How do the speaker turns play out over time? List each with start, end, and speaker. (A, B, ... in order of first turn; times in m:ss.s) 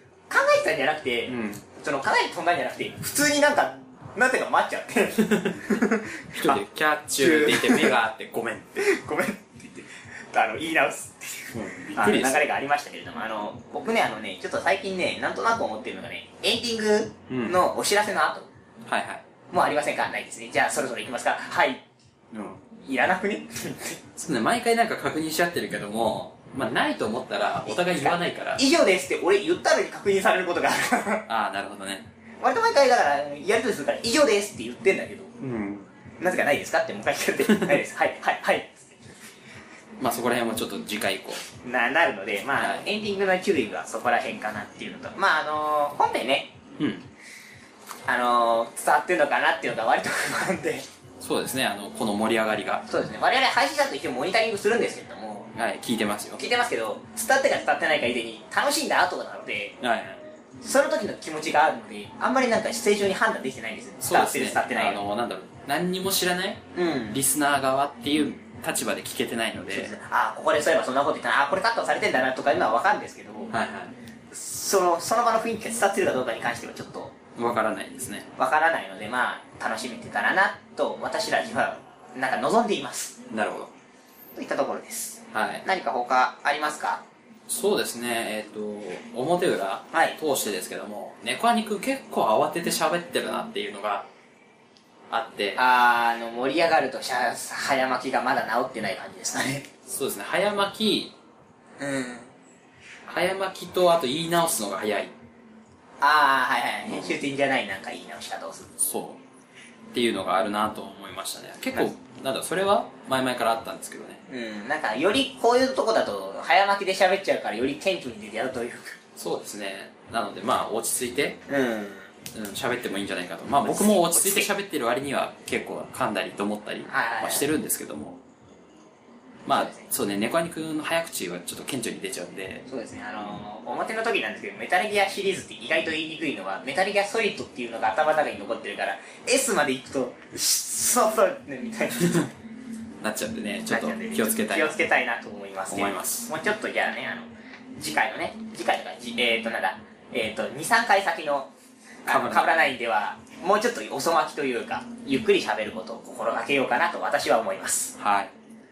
0:00.3-0:06.6 A
0:01.3-0:01.6 B
0:05.2-0:05.8 B
0:06.3-0:08.8 B
0:07.2-0:07.9 A
0:08.8-0:18.5 A
0:11.5-0:12.4 B
0:17.3-0:17.6 B
0:18.8-0:19.2 B
0:19.5-0:21.8 A
0:22.3-0:22.6 B
0:22.8-0:24.0 A
0:24.2-0:28.6 B
0:27.7-0:31.2 A
0:31.3-0:32.1 B
0:32.4-0:35.3 A
0:35.4-0:35.9 B
0:36.2-0:38.9 A
0:37.5-0:37.8 B
0:40.0-0:41.4 B
0:41.6-0:46.5 A
0:42.6-0:42.8 B
0:46.8-0:47.0 B
0:48.1-0:50.9 A
0:51.2-0:52.8 B
0:52.9-0:55.5 A
0:55.5-0:56.6 B
0:56.4-0:59.8 A
0:59.8-1:00.2 B
1:00.6-1:05.0 A
1:04.0-1:09.9 B
1:06.7-1:07.2 A
1:09.7-1:13.5 A
1:13.5-1:13.9 B
1:14.3-1:17.1 A
1:17.4-1:18.3 B
1:18.4-1:23.2 A
1:23.3-1:23.7 B
1:24.4-1:27.0 A
1:25.3-1:25.6 B
1:27.5-1:34.0 B
1:35.1-1:35.6 B
1:35.6-1:39.6 A
1:39.9-1:41.1 B
1:41.8-1:42.3 A
1:43.1-1:45.1 B
1:46.0-1:48.7 A
1:46.9-1:47.1 B
1:48.8-1:49.2 B
1:49.9-1:54.2 B
1:54.3-1:59.0 A
1:59.2-2:01.4 B
2:01.5-2:02.1 A
2:02.3-2:08.2 B
2:03.6-2:04.5 A
2:06.9-2:07.5 A
2:09.4-2:12.6 B
2:09.5-2:09.8 A
2:12.7-2:22.3 A
2:22.0-2:22.3 B
2:23.0-2:24.8 B
2:23.7-2:31.5 A
2:25.7-2:26.3 B
2:32.0-2:38.0 A
2:32.1-2:32.5 B
2:38.0-2:38.3 B